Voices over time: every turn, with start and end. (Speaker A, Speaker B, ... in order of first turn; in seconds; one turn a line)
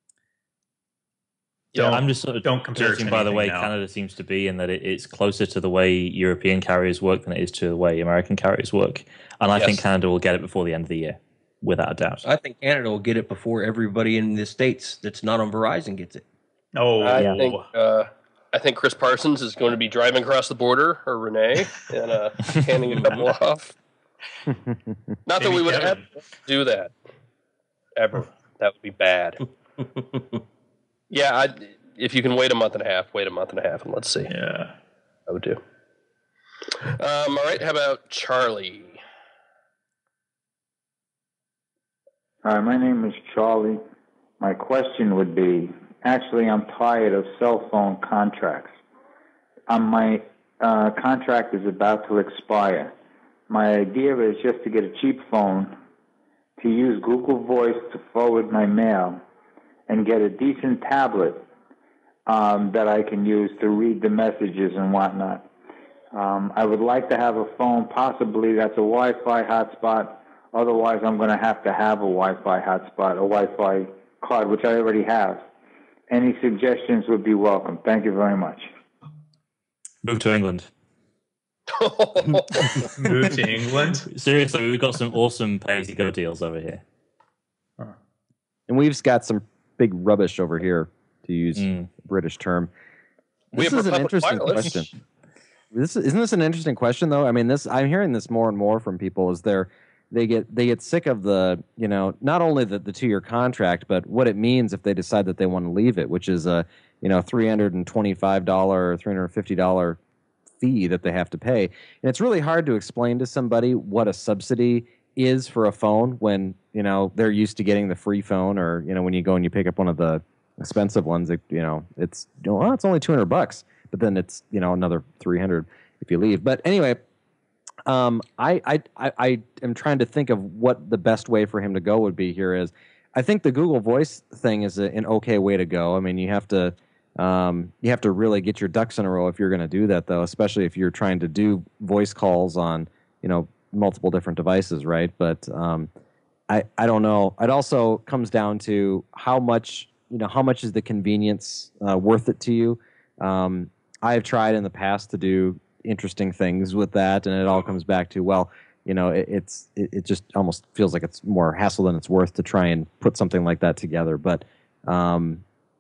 Speaker A: 1.8-3.7
Speaker B: 1.9-12.3
Speaker C: 9.6-9.8
Speaker D: 12.2-16.2
Speaker A: 16.7-17.7
Speaker C: 17.0-23.8
Speaker C: 25.3-26.9
Speaker A: 25.4-26.0
Speaker C: 28.0-29.4
Speaker D: 30.0-30.2
Speaker C: 31.1-34.3
Speaker A: 34.3-34.7
Speaker C: 35.3-35.6
Speaker C: 37.0-39.0
Speaker E: 42.4-43.8
Speaker E: 44.4-48.8
Speaker E: 49.7-52.9
Speaker E: 53.5-55.8
Speaker E: 56.6-59.2
Speaker E: 59.9-61.4
Speaker E: 62.3-65.5
Speaker E: 66.1-75.4
Speaker E: 76.1-78.7
Speaker B: 80.0-80.7
Speaker C: 81.7-82.9
Speaker A: 83.0-84.1
Speaker B: 84.1-86.8
Speaker F: 88.7-92.7
Speaker B: 91.6-91.9
Speaker F: 93.5-94.9
Speaker C: 93.5-94.7
Speaker F: 95.7-110.0
Speaker F: 110.6-127.0
Speaker F: 127.9-145.9
Speaker F: 146.5-165.4